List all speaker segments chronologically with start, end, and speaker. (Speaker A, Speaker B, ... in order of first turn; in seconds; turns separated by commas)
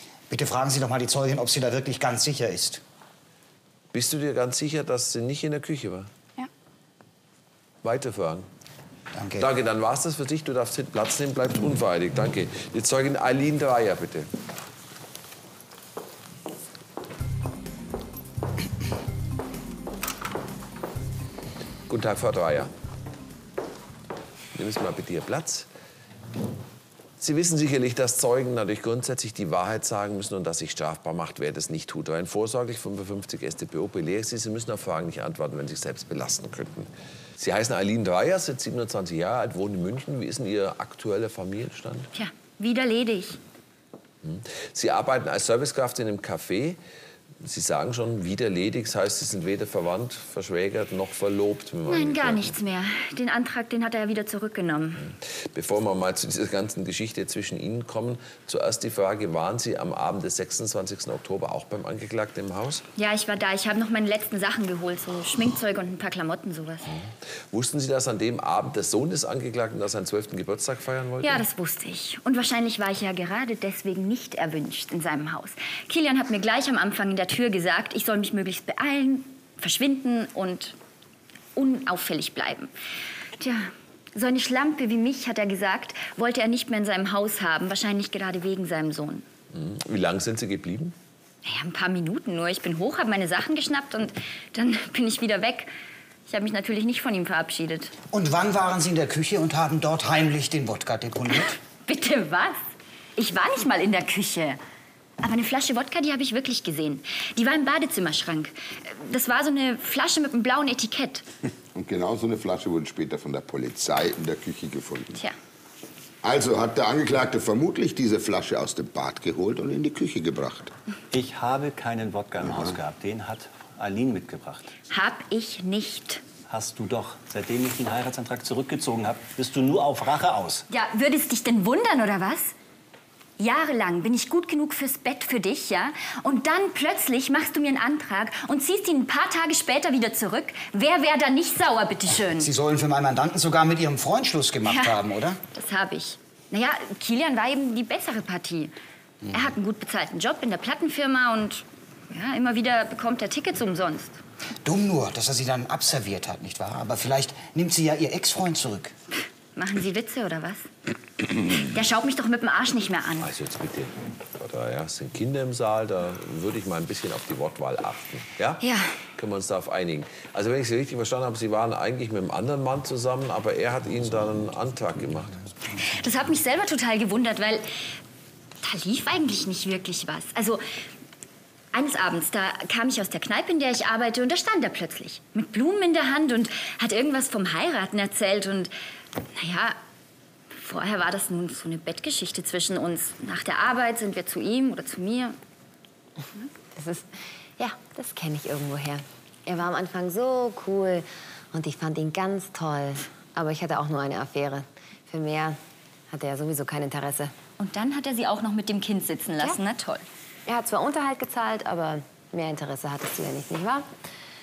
Speaker A: 0.3-2.8, Speaker B: 3.9-6.1, Speaker B: 7.8-8.5, Speaker A: 9.1-9.5, Speaker B: 9.4-14.3, Speaker B: 21.9-22.7, Speaker B: 24.5-25.7, Speaker B: 27.2-42.1, Speaker C: 42.1-43.4, Speaker B: 44.2-46.8, Speaker B: 47.4-52.5, Speaker C: 51.9-55.1, Speaker B: 55.0-62.8, Speaker C: 63.0-66.9, Speaker B: 66.9-71.4, Speaker C: 71.2-80.7, Speaker C: 81.5-82.7, Speaker C: 83.4-89.2, Speaker B: 89.5-90.9, Speaker C: 91.4-95.7, Speaker C: 96.3-97.9, Speaker A: 98.1-101.5, Speaker C: 101.8-102.6, Speaker C: 103.2-104.6, Speaker C: 105.2-111.2, Speaker D: 111.7-115.2, Speaker D: 116.2-120.7, Speaker E: 121.1-124.7, Speaker C: 124.9-126.2, Speaker E: 126.5-130.6, Speaker C: 130.7-132.5, Speaker C: 133.4-142.5, Speaker A: 142.3-145.4, Speaker C: 144.7-145.0, Speaker C: 145.5-148.7, Speaker C: 149.3-154.2, Speaker A: 154.6-158.9, Speaker C: 159.6-160.7, Speaker C: 161.5-163.3, Speaker B: 163.2-168.6, Speaker C: 168.6-168.9, Speaker B: 169.2-175.4, Speaker C: 175.9-177.7, Speaker C: 178.6-180.6, Speaker C: 181.7-188.7, Speaker C: 189.3-189.8, Speaker C: 190.5-195.4, Speaker F: 196.8-205.6, Speaker F: 206.1-207.3, Speaker C: 207.6-210.0, Speaker F: 210.4-213.8